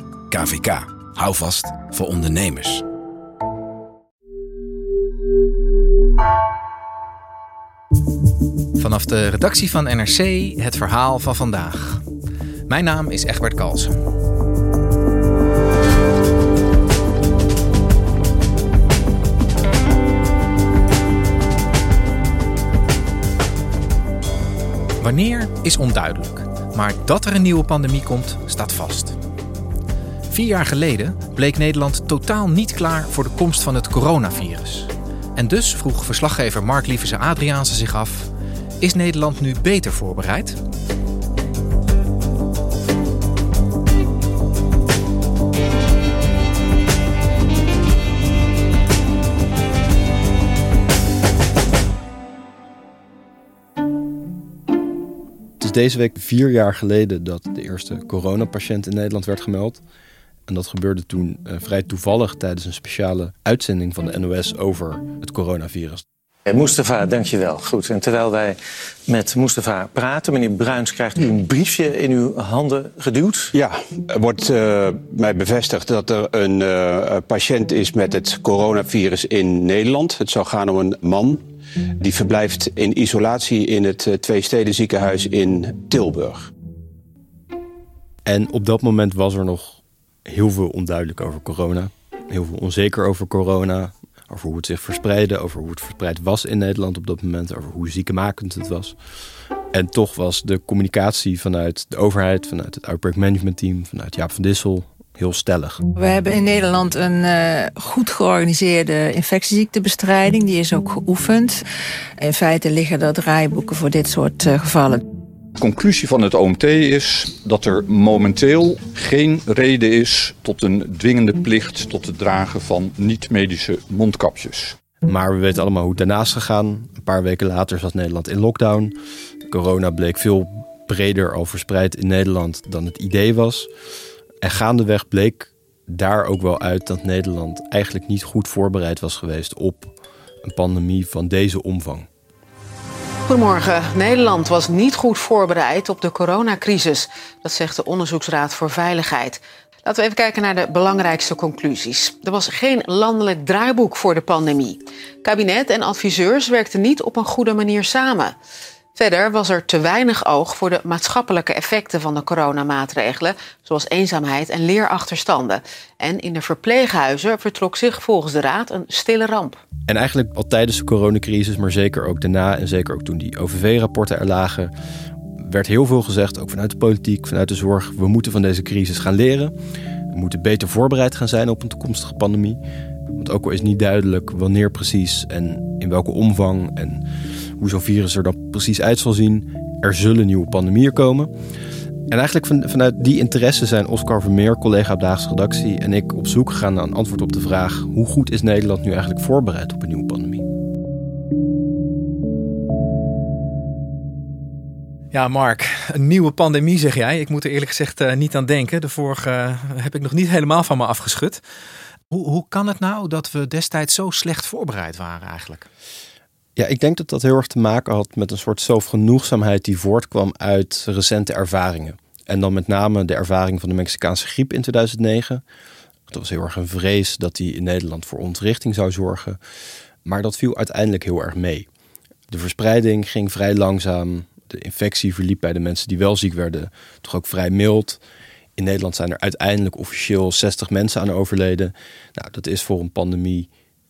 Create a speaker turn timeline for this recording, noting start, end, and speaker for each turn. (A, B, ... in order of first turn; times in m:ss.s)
0:00.3-0:02.8 A
0:08.8-0:12.0 B
0:12.7-0:14.0 B
0:25.0-0:29.2 B
0:30.3-0:40.6 B
0:55.6-0:59.8 C
1:00.5-1:06.0 C
1:06.5-1:13.5 D
1:13.5-1:21.4 E
1:22.0-1:26.5 E
1:28.3-1:38.9 C
1:39.7-1:45.8 C
1:46.0-1:51.6 F
1:52.2-1:55.0 F
1:55.6-2:04.8 G
2:05.0-2:08.9 C
2:09.5-2:13.7 C
2:14.4-2:22.1 C
2:23.3-2:38.3 H
2:39.0-2:49.6 H
2:49.9-2:54.7 C
2:55.4-2:59.5 C
3:00.1-3:02.6 C
3:03.2-3:07.0 C
3:07.6-3:11.3 C
3:12.1-3:20.4 C
3:25.1-3:31.4 B
3:32.1-3:35.7 B
3:36.6-3:45.4 C
3:46.1-3:49.4 C
3:50.0-3:51.7 C
3:52.3-3:58.0 C
3:58.6-4:03.5 C